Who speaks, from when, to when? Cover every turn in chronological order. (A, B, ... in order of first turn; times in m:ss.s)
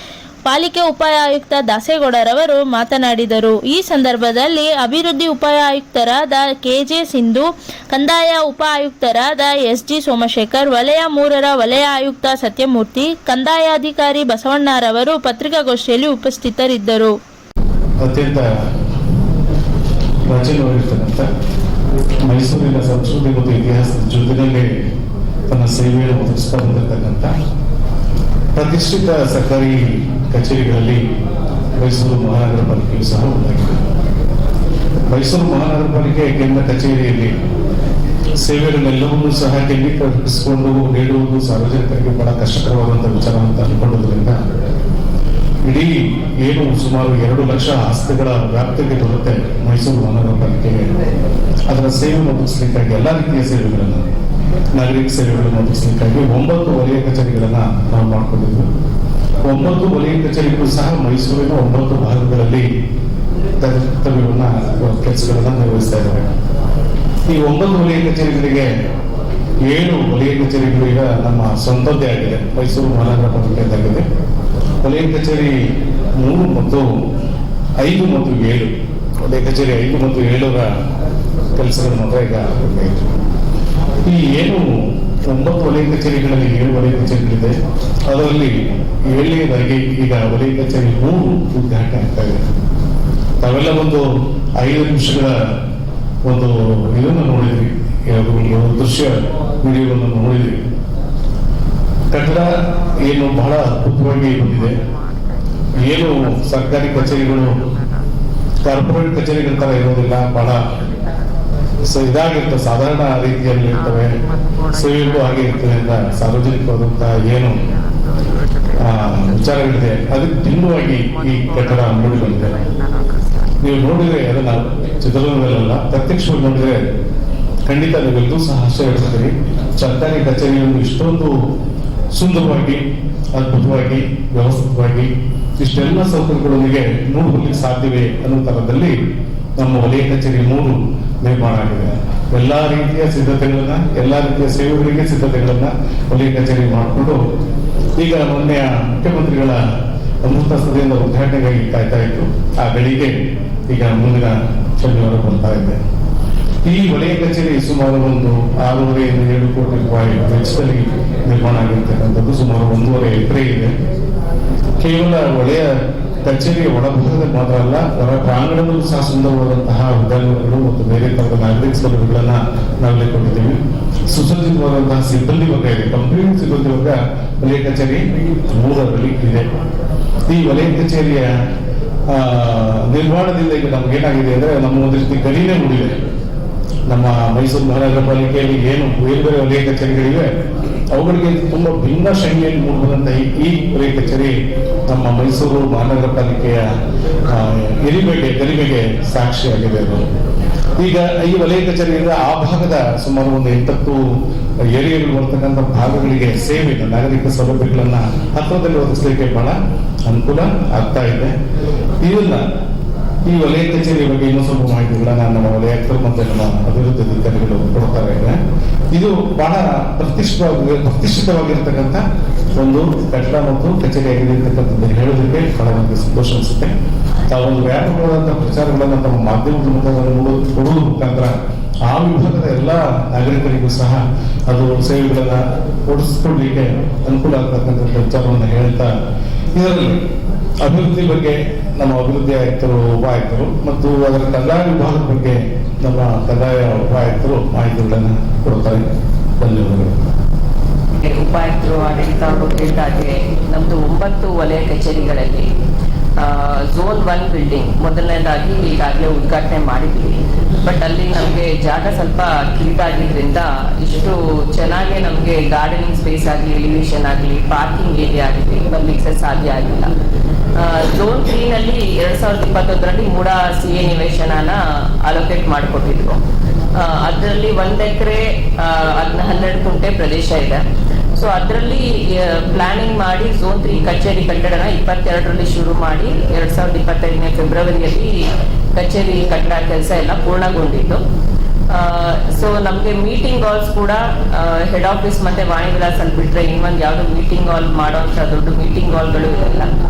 0:00.5-0:17.1 A
0:18.0-0:18.4 B
0:20.3-0:21.3 B
0:22.3-0:24.7 B
0:25.5-0:27.3 B
0:28.6-0:29.8 B
0:30.3-0:31.0 B
0:31.8-0:33.8 B
0:35.1-0:37.3 B
0:38.4-0:44.4 B
0:45.7-0:45.9 B
0:46.4-0:50.9 B
0:51.7-0:54.0 B
0:54.8-0:58.7 B
0:59.4-1:02.7 B
1:03.6-1:06.3 B
1:07.3-1:08.7 B
1:09.7-1:14.0 B
1:14.8-1:15.6 B
1:16.2-1:17.0 B
1:17.8-1:18.7 B
1:19.2-1:20.7 B
1:21.6-1:23.1 B
1:24.1-1:24.7 B
1:25.3-1:27.5 B
1:28.1-1:28.5 B
1:29.1-1:32.4 B
1:33.4-1:34.0 B
1:34.6-1:35.4 B
1:36.3-1:40.5 B
1:42.1-1:42.5 B
1:43.1-1:44.8 B
1:45.8-1:47.6 B
1:47.4-1:47.8 C
1:48.7-1:50.6 B
1:50.8-1:51.1 C
1:51.9-1:54.1 B
1:53.9-1:54.8 C
1:54.7-1:57.6 B
1:57.7-1:58.9 C
1:58.9-2:02.5 B
2:01.1-2:03.5 C
2:03.6-2:06.8 B
2:07.7-2:11.3 B
2:12.2-2:12.8 B
2:13.4-2:15.1 B
2:15.6-2:18.9 B
2:19.6-2:27.2 B
2:28.0-2:29.6 B
2:30.2-2:33.2 B
2:33.7-2:35.8 B
2:36.7-2:43.7 B
2:44.8-2:45.7 B
2:46.2-2:53.6 B
2:54.1-2:58.0 B
2:58.6-2:59.5 B
3:00.3-3:01.3 B
3:02.1-3:05.9 B
3:06.9-3:10.3 B
3:10.9-3:14.4 B
3:14.9-3:16.6 B
3:17.3-3:20.0 B
3:20.8-3:24.0 B
3:24.8-3:29.6 B
3:30.1-3:31.3 B
3:32.0-3:32.4 B
3:33.3-3:38.4 B
3:39.0-3:42.0 B
3:42.6-3:46.7 B
3:47.3-3:51.4 B
3:51.9-3:58.9 B
3:59.6-4:00.0 B
4:00.6-4:08.9 B
4:09.4-4:10.0 B
4:11.0-4:15.5 C
4:16.2-4:29.9 C
4:30.6-4:36.2 C
4:36.8-4:40.6 C
4:41.2-4:48.1 C
4:48.8-4:51.0 C
4:51.7-4:59.7 C